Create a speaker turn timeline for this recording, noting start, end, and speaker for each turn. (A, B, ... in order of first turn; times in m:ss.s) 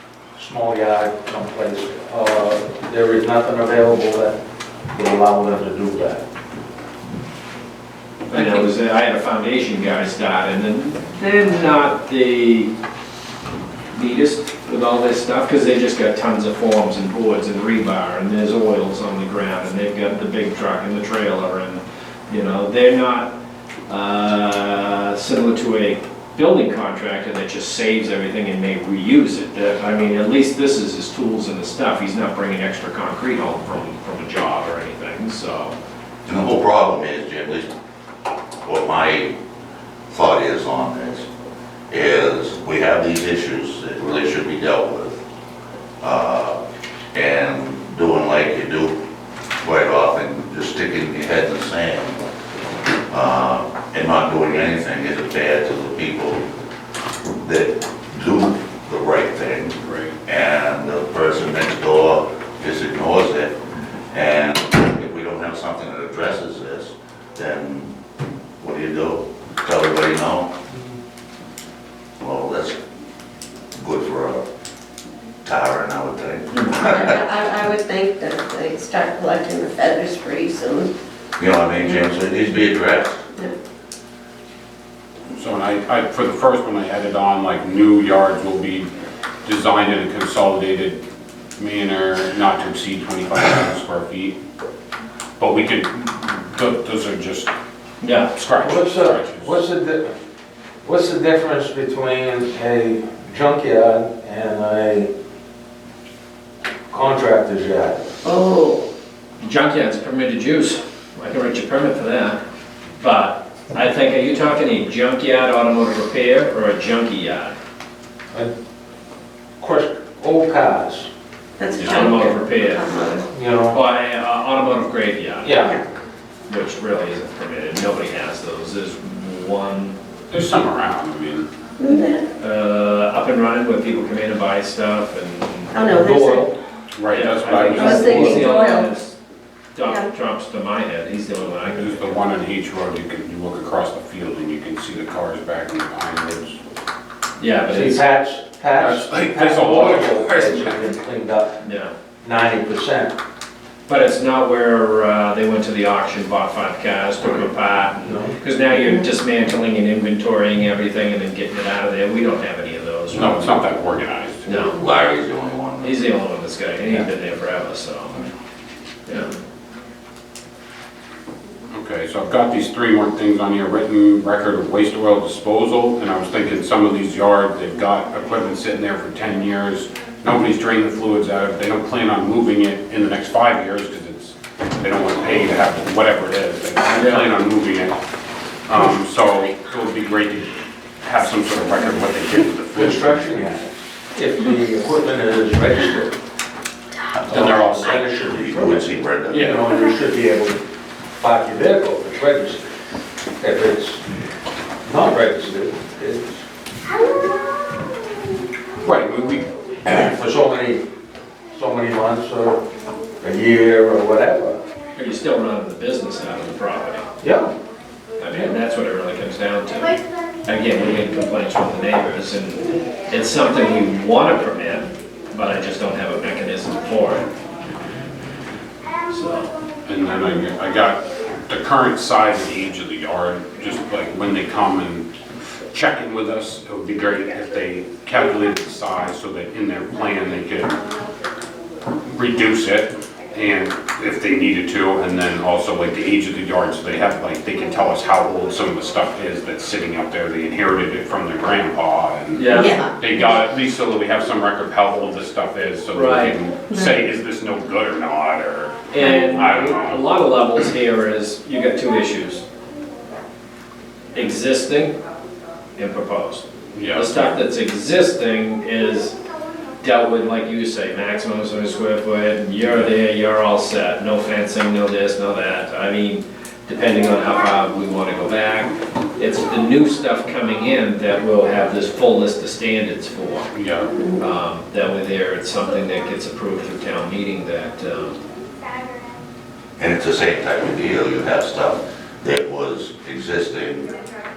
0:00.4-0:04.4 A
0:04.9-0:06.2 A
0:08.3-0:12.7 B
0:13.9-0:23.3 B
0:23.9-0:35.8 B
0:36.3-0:37.7 C
0:38.6-0:39.4 C
0:40.1-0:41.3 C
0:41.9-0:45.2 C
0:46.0-0:46.6 C
0:47.1-0:49.0 C
0:49.6-0:52.2 C
0:53.1-0:56.5 C
0:57.4-1:03.6 C
0:59.8-1:00.1 D
1:04.1-1:08.0 C
1:08.6-1:10.5 C
1:12.2-1:12.8 C
1:13.8-1:14.5 C
1:15.4-1:17.2 C
1:16.9-1:20.9 E
1:21.4-1:23.2 C
1:25.4-1:28.9 D
1:29.4-1:31.0 D
1:31.6-1:34.4 D
1:35.4-1:37.5 D
1:38.0-1:38.3 B
1:38.3-1:39.5 D
1:38.6-1:40.1 A
1:40.8-1:45.1 A
1:46.9-1:48.1 A
1:48.2-1:48.9 E
1:49.4-1:52.4 B
1:53.0-1:57.6 B
1:59.6-2:01.1 A
2:01.6-2:03.3 E
2:01.8-2:02.2 D
2:01.8-2:02.8 B
2:03.3-2:03.8 A
2:03.7-2:05.6 B
2:05.4-2:05.8 A
2:06.5-2:10.0 B
2:10.3-2:11.5 D
2:11.8-2:12.3 E
2:12.4-2:15.7 B
2:15.7-2:16.5 E
2:15.8-2:16.6 A
2:16.9-2:18.5 D
2:17.1-2:19.2 B
2:17.5-2:18.5 A
2:17.8-2:18.9 E
2:19.7-2:22.2 B
2:21.6-2:26.6 D
2:27.4-2:28.1 B
2:27.7-2:31.6 A
2:28.8-2:31.0 D
2:31.6-2:31.9 B
2:32.2-2:33.2 A
2:33.9-2:43.4 B
2:38.0-2:38.4 A
2:43.1-2:44.5 D
2:44.5-2:44.8 B
2:44.7-2:45.9 C
2:45.8-2:48.2 B
2:49.1-2:49.3 B
2:51.7-3:08.0 D
3:06.9-3:07.3 B
3:08.6-3:13.2 D
3:12.8-3:16.2 A
3:17.2-3:18.3 D
3:17.3-3:20.6 A
3:18.3-3:19.6 C
3:19.3-3:19.7 D
3:21.2-3:22.7 A
3:23.4-3:24.0 A
3:24.8-3:26.4 A
3:28.8-3:29.9 D
3:30.0-3:30.8 A
3:31.5-3:32.6 A
3:33.2-3:34.6 A
3:35.0-3:37.1 B
3:37.2-3:37.5 A
3:38.2-3:47.3 B
3:49.1-3:49.5 B
3:49.9-3:55.1 D
3:55.7-4:00.8 D
4:02.0-4:20.0 D
4:12.3-4:12.8 B
4:12.5-4:12.9 E
4:15.9-4:16.4 B
4:18.9-4:22.4 B
4:24.1-4:25.0 B
4:25.8-4:29.2 B
4:26.7-4:27.3 D
4:29.8-4:43.5 B
4:43.5-4:43.9 D
4:44.2-4:48.2 B
4:49.8-4:53.9 C